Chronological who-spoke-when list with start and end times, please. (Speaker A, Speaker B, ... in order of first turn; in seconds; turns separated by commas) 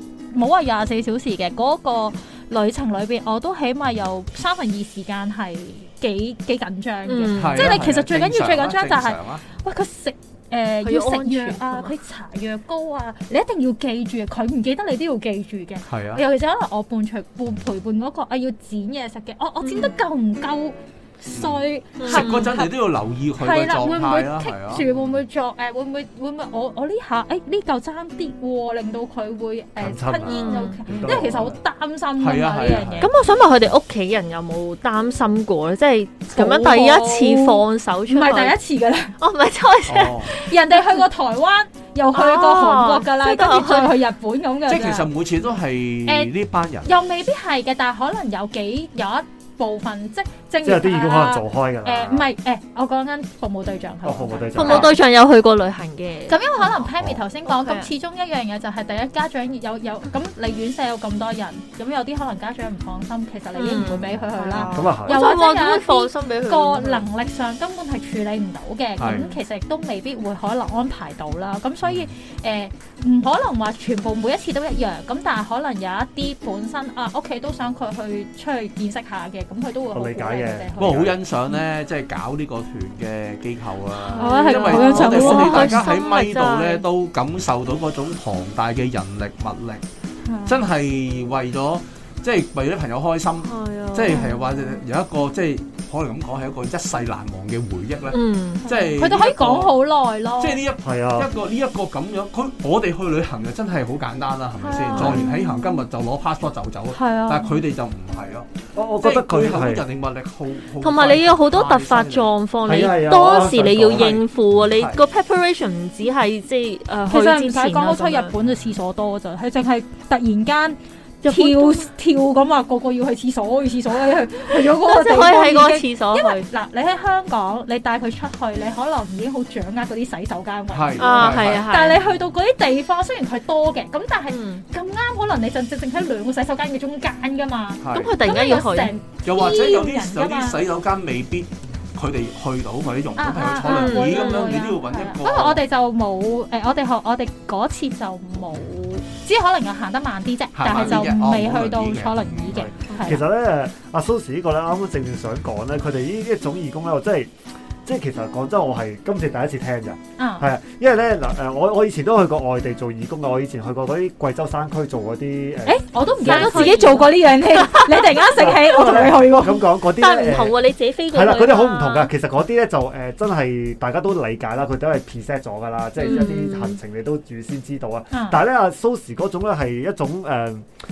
Speaker A: 0.3-22.8, Speaker B: 7.1-7.9, Speaker C: 7.3-9.4, Speaker B: 10.8-11.9, Speaker C: 15.9-16.2, Speaker B: 19.6-19.9, Speaker C: 21.3-25.1, Speaker B: 22.0-22.5, Speaker A: 23.4-33.2, Speaker D: 29.8-31.6, Speaker B: 30.3-31.1, Speaker C: 32.2-33.1, Speaker B: 33.0-38.5, Speaker A: 36.3-39.1, Speaker B: 39.2-40.9, Speaker C: 39.9-40.3, Speaker A: 40.2-45.1, Speaker B: 42.1-43.9, Speaker C: 44.7-46.9, Speaker A: 46.1-46.3, Speaker A: 46.9-54.9, Speaker D: 50.6-52.3, Speaker D: 54.0-55.0, Speaker B: 54.5-56.8, Speaker C: 54.6-54.9, Speaker A: 56.3-81.1, Speaker B: 57.5-57.9, Speaker B: 63.5-67.0, Speaker D: 64.7-65.2, Speaker C: 69.0-69.3, Speaker B: 69.1-69.3, Speaker D: 79.9-81.2, Speaker C: 80.8-89.8, Speaker B: 84.1-86.8, Speaker A: 84.1-85.9, Speaker A: 90.2-90.6, Speaker C: 90.5-99.8, Speaker B: 93.4-94.4, Speaker A: 94.1-94.4, Speaker B: 98.1-98.8, Speaker A: 98.7-100.6, Speaker C: 100.4-108.5, Speaker D: 100.8-101.3, Speaker B: 104.6-105.4, Speaker A: 104.7-105.7, Speaker A: 107.0-107.4, Speaker B: 107.1-107.6, Speaker D: 108.8-109.8, Speaker C: 109.0-112.3, Speaker B: 110.8-118.3, Speaker D: 112.7-114.2, Speaker C: 113.9-115.0, Speaker A: 117.1-140.6, Speaker B: 121.2-121.9, Speaker B: 124.6-126.5, Speaker C: 130.7-131.7, Speaker B: 131.0-132.0, Speaker B: 134.3-134.6, Speaker C: 137.8-138.2, Speaker B: 137.9-138.9, Speaker C: 139.2-145.6, Speaker A: 143.2-153.2, Speaker B: 143.7-144.7, Speaker C: 150.6-152.7, Speaker B: 150.8-151.1, Speaker D: 152.5-157.3, Speaker D: 157.8-166.9, Speaker A: 160.2-160.4, Speaker A: 165.7-169.6, Speaker B: 166.2-172.1, Speaker D: 168.3-170.6, Speaker D: 171.1-180.7, Speaker B: 176.0-176.8, Speaker A: 178.1-178.4